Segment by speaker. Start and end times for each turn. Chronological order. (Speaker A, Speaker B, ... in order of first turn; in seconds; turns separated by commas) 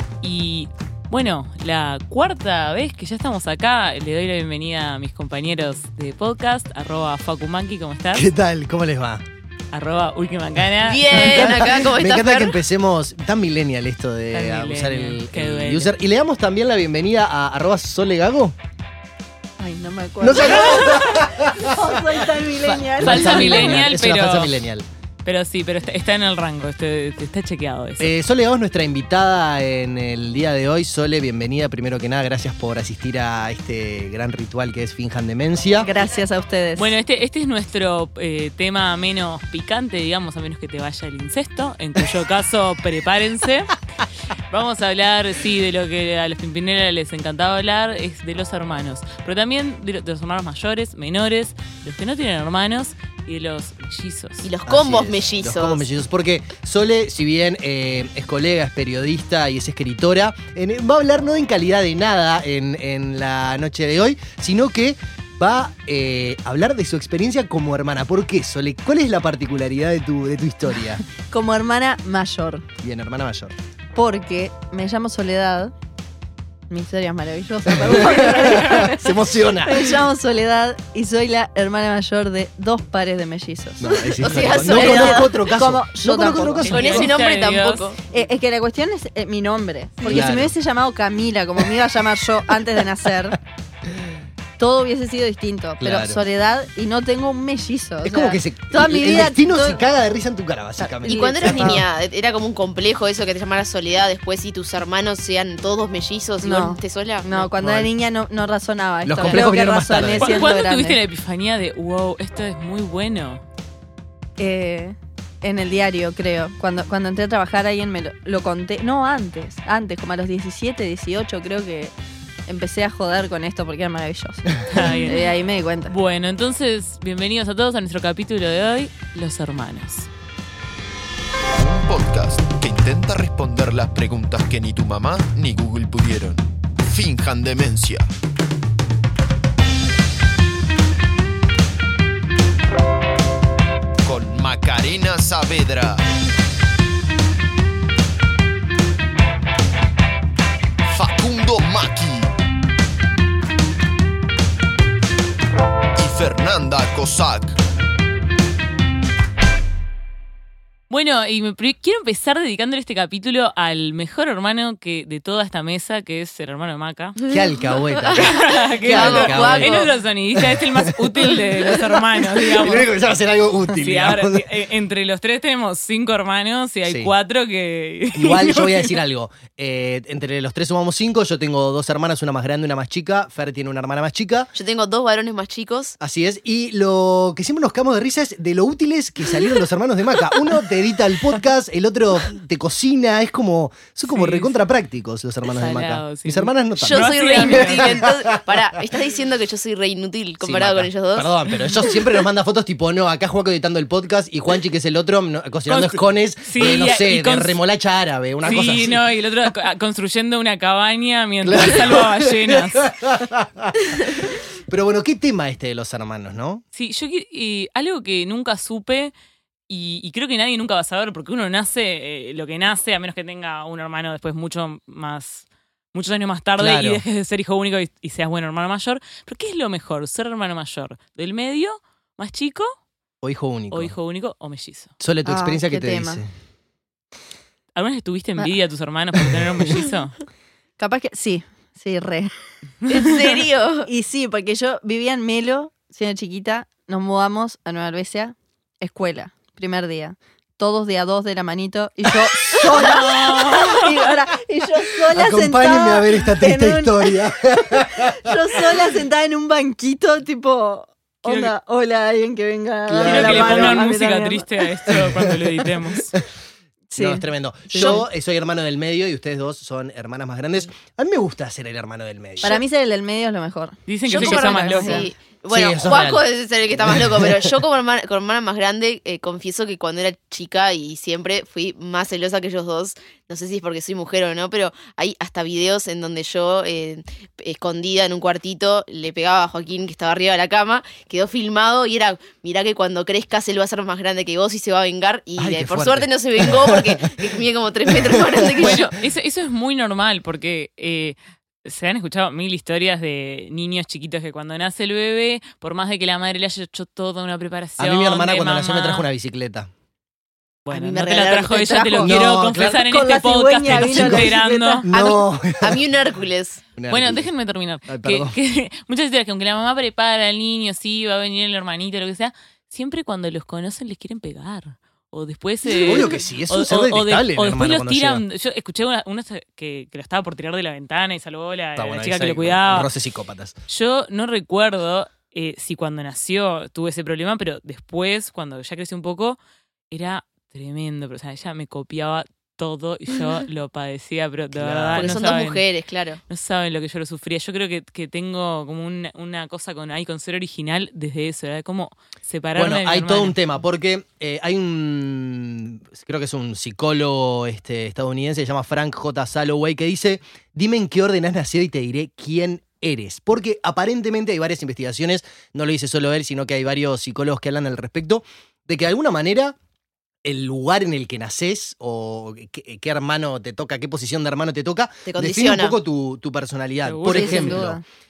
Speaker A: 0.2-8.3, Speaker B: 8.1-9.2, Speaker A: 9.7-11.4, Speaker C: 10.9-12.6, Speaker B: 11.1-18.6, Speaker A: 14.3-15.9, Speaker D: 19.6-23.9, Speaker B: 20.2-24.9, Speaker A: 23.0-24.6, Speaker A: 25.2-28.1, Speaker B: 28.0-35.9, Speaker D: 35.8-36.9, Speaker A: 36.8-43.8, Speaker A: 44.5-54.5, Speaker C: 54.4-55.8, Speaker B: 54.7-71.0, Speaker D: 71.2-72.7, Speaker B: 72.8-73.5, Speaker D: 74.0-75.7, Speaker D: 76.7-87.1, Speaker B: 77.7-80.0, Speaker B: 83.8-87.1, Speaker C: 83.9-85.3, Speaker A: 86.7-87.9, Speaker C: 86.7-88.0, Speaker D: 88.1-93.4, Speaker B: 90.0-90.5, Speaker D: 94.6-99.8, Speaker B: 95.8-96.2, Speaker B: 98.0-101.9, Speaker D: 100.8-101.8, Speaker C: 101.0-107.5, Speaker D: 106.4-111.0, Speaker B: 107.6-107.9, Speaker B: 109.0-110.5, Speaker A: 110.2-113.4, Speaker D: 114.4-121.9, Speaker D: 122.5-125.9, Speaker A: 124.7-125.3, Speaker A: 125.9-130.1, Speaker E: 131.6-138.1, Speaker E: 144.0-146.0, Speaker E: 150.8-152.3, Speaker E: 155.9-157.6, Speaker A: 160.9-167.2, Speaker B: 167.3-174.5, Speaker C: 168.0-169.9, Speaker A: 168.1-172.9, Speaker A: 173.8-178.9, Speaker B: 178.2-184.5, Speaker C: 184.6-186.0, Speaker B: 186.0-198.8, Speaker A: 194.1-194.6, Speaker A: 195.5-198.0, Speaker C: 196.8-201.3, Speaker B: 200.4-209.0, Speaker A: 205.7-207.6, Speaker A: 208.4-212.9, Speaker B: 211.4-216.6, Speaker A: 216.7-219.1, Speaker A: 219.7-232.7, Speaker B: 226.6-227.0, Speaker B: 233.2-233.9, Speaker A: 233.7-234.9, Speaker B: 235.0-236.3, Speaker D: 235.2-236.2, Speaker A: 237.8-240.2, Speaker B: 239.2-239.8, Speaker D: 240.8-242.3, Speaker D: 242.9-264.5, Speaker C: 242.9-243.9, Speaker A: 252.7-253.9, Speaker B: 255.1-258.9, Speaker A: 261.3-261.5, Speaker B: 262.9-263.8, Speaker A: 263.0-266.1, Speaker B: 264.9-266.2, Speaker D: 266.9-268.0, Speaker B: 267.0-272.6, Speaker D: 272.4-275.1, Speaker A: 273.9-275.1, Speaker C: 274.1-298.9, Speaker B: 275.5-276.2, Speaker B: 276.8-277.5, Speaker B: 295.4-297.0, Speaker B: 297.9-298.9, Speaker A: 298.6-309.1, Speaker B: 307.8-309.7, Speaker A: 310.7-314.9, Speaker C: 310.7-312.1, Speaker B: 312.0-313.0, Speaker D: 312.6-314.9, Speaker B: 313.6-315.8, Speaker C: 314.9-316.6, Speaker B: 316.8-317.3, Speaker A: 316.9-332.9, Speaker B: 317.9-318.4, Speaker B: 325.7-328.2, Speaker B: 331.8-333.6, Speaker A: 333.7-339.4, Speaker A: 339.9-345.6, Speaker B: 344.6-345.3, Speaker C: 344.9-346.2, Speaker A: 346.3-353.4, Speaker B: 352.6-369.6, Speaker B: 370.2-377.8, Speaker C: 375.1-375.8, Speaker A: 376.8-377.6, Speaker D: 377.1-377.8